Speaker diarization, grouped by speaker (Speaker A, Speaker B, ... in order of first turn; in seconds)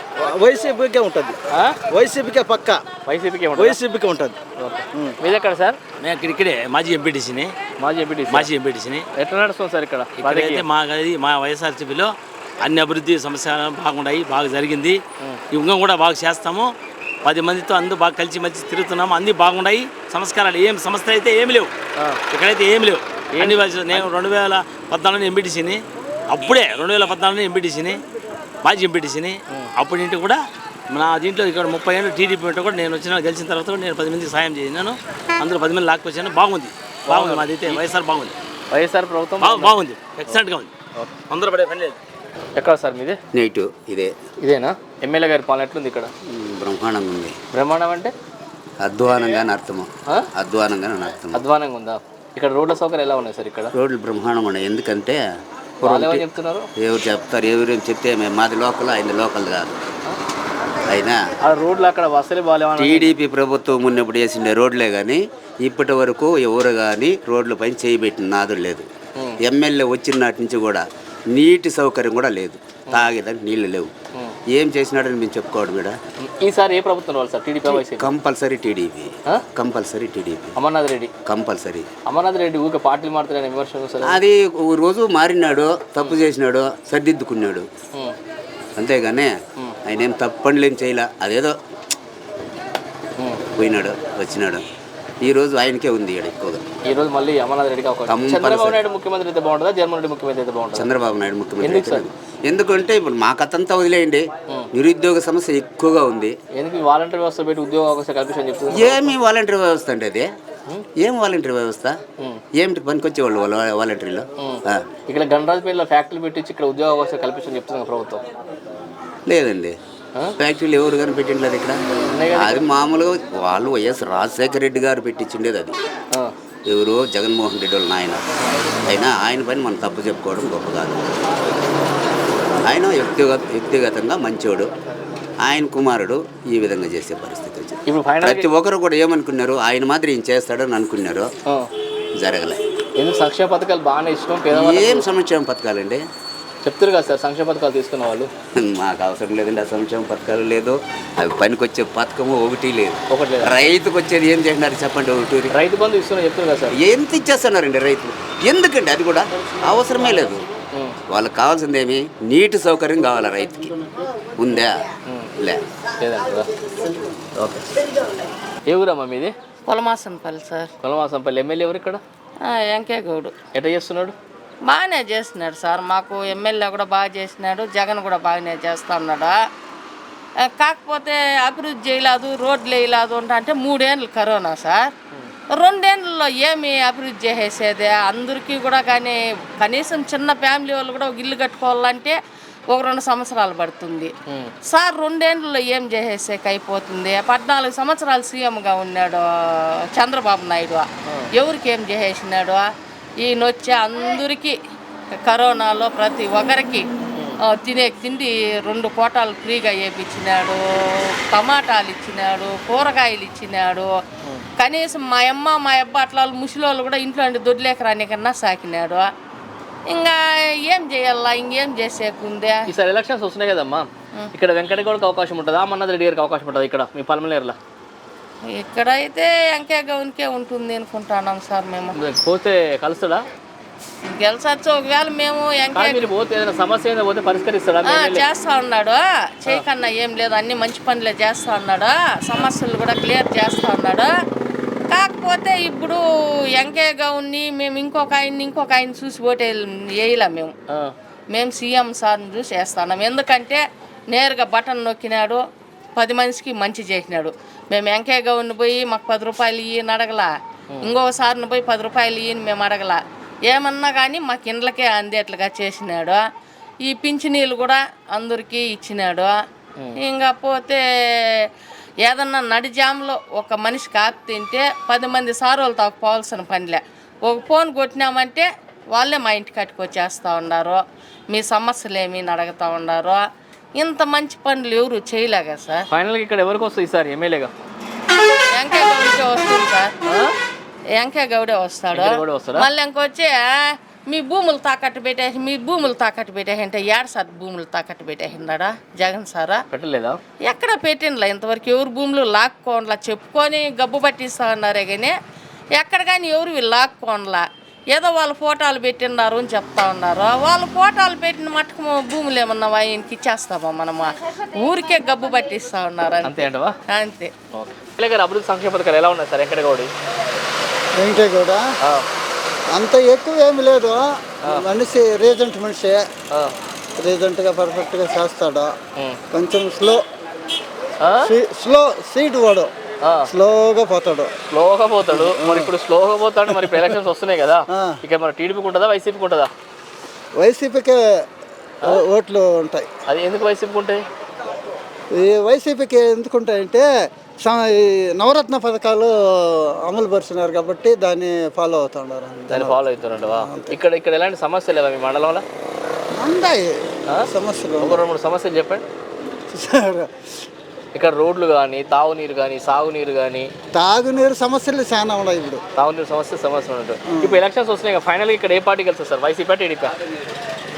Speaker A: 0.2-1.4, 1.9-2.8, 3.5-4.3
Speaker B: 3.1-3.8, 4.6-5.8, 7.8-8.5, 9.2-10.6, 23.3-24.1, 37.0-37.8, 38.7-39.7, 42.5-43.2, 44.4-46.1, 47.5-48.1, 51.3-53.7, 55.8-56.7, 61.4-63.1, 76.2-78.1, 80.5-81.1, 82.1-84.2, 96.8-100.9, 101.6-102.0, 106.5-109.1, 114.4-118.2, 122.1-122.6, 137.9-138.4, 143.0-145.1, 146.6-148.3, 153.1-153.7, 155.5-156.7, 166.0-166.5, 168.7-169.3, 170.8-172.0, 173.5-174.1, 194.3-194.5, 201.1-201.3, 222.7-227.6, 231.9-233.2, 235.7-238.2, 285.9-287.5, 290.1-290.3, 291.9-292.7, 299.7-300.2, 316.2-316.8, 317.5-319.9, 331.0-331.3, 334.5-339.5, 343.1-344.0, 352.5-355.4, 357.8-358.8, 360.9-363.5, 365.8-369.9
Speaker C: 6.0-7.5, 8.3-9.0, 10.2-15.0, 15.5-16.7, 17.2-21.7, 22.3-25.8, 26.3-28.0, 28.6-30.4, 30.9-38.3, 39.4-40.7, 41.3-42.0
Speaker D: 43.3-44.1, 46.3-47.3, 48.8-51.4, 53.7-55.2, 55.8-56.2, 56.8-59.8, 60.9-61.2, 62.8-68.8, 69.4-73.9, 74.5-76.0, 77.7-80.5, 81.3-81.8, 84.0-87.7, 88.8-89.3, 89.8-91.5, 93.6-94.6, 95.2-96.6, 98.1-98.8, 100.7-106.3, 108.7-110.3, 111.0-112.0, 112.6-114.8, 119.3-119.7, 120.4-121.8, 122.3-125.7, 126.7-128.2, 128.8-131.0, 132.7-134.7, 135.4-141.3, 142.2-142.6, 144.5-146.0, 148.6-155.5, 156.8-160.4, 161.1-163.7, 164.4-164.8
Speaker E: 169.7-170.7, 172.4-173.3, 174.7-179.4, 180.4-184.9, 185.6-192.1, 192.7-194.1, 194.7-200.9, 201.4-202.7, 203.2-204.5, 205.2-206.8, 207.4-213.9, 214.6-219.1, 219.9-222.7, 228.5-231.9, 234.0-236.1, 237.9-244.1, 244.9-246.0, 246.6-250.5, 251.3-255.4, 255.9-260.3, 260.8-266.2, 266.8-269.4, 270.0-271.5, 272.0-280.8, 281.3-283.2, 283.8-285.9, 288.5-289.9, 290.9-299.6, 300.4-305.1, 305.8-317.3
Speaker F: 320.9-321.6, 322.7-326.0, 327.0-328.7, 329.3-330.0, 331.2-332.7, 333.2-334.3, 335.1-335.7, 336.6-336.9, 340.4-341.0, 341.8-342.9, 345.1-346.8, 347.4-353.7, 356.1-358.0, 359.5-360.1, 363.7-365.6, 367.1-367.4